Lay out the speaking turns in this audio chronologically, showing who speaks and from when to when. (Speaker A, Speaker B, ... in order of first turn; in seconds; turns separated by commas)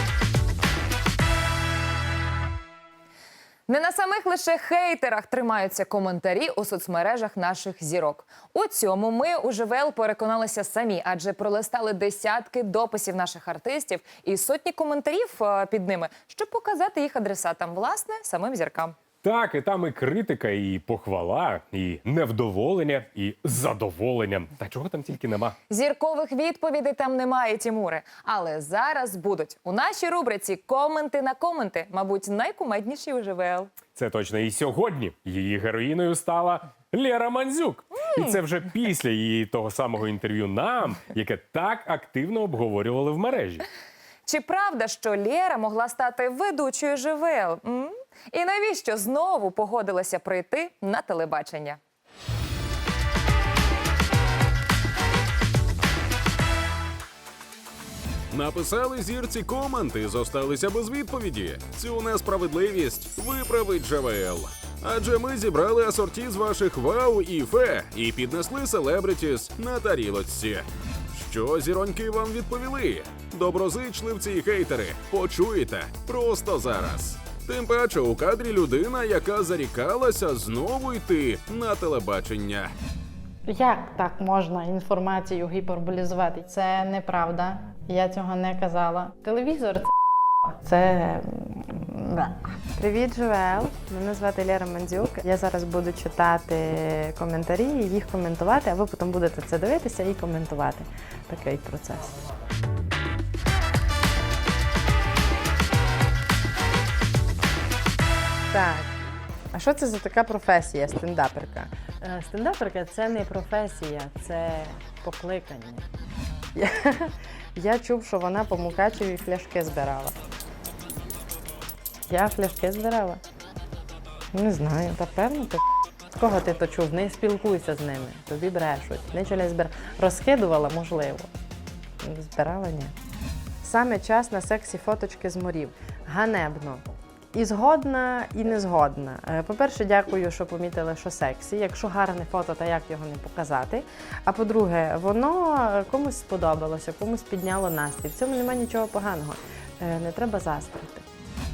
Speaker A: 3.7-18.9, Speaker B: 19.2-25.6, Speaker A: 25.7-33.7, Speaker B: 33.9-43.6, Speaker A: 44.2-51.8, Speaker C: 58.3-82.7, Speaker D: 83.5-89.9, Speaker D: 90.5-92.5, Speaker E: 92.7-102.1, Speaker E: 108.5-109.0, Speaker E: 109.5-115.8, Speaker E: 116.5-120.1, Speaker E: 122.1-123.2, Speaker E: 124.3-125.6, Speaker E: 126.2-131.3, Speaker E: 132.0-132.9, Speaker E: 133.6-151.0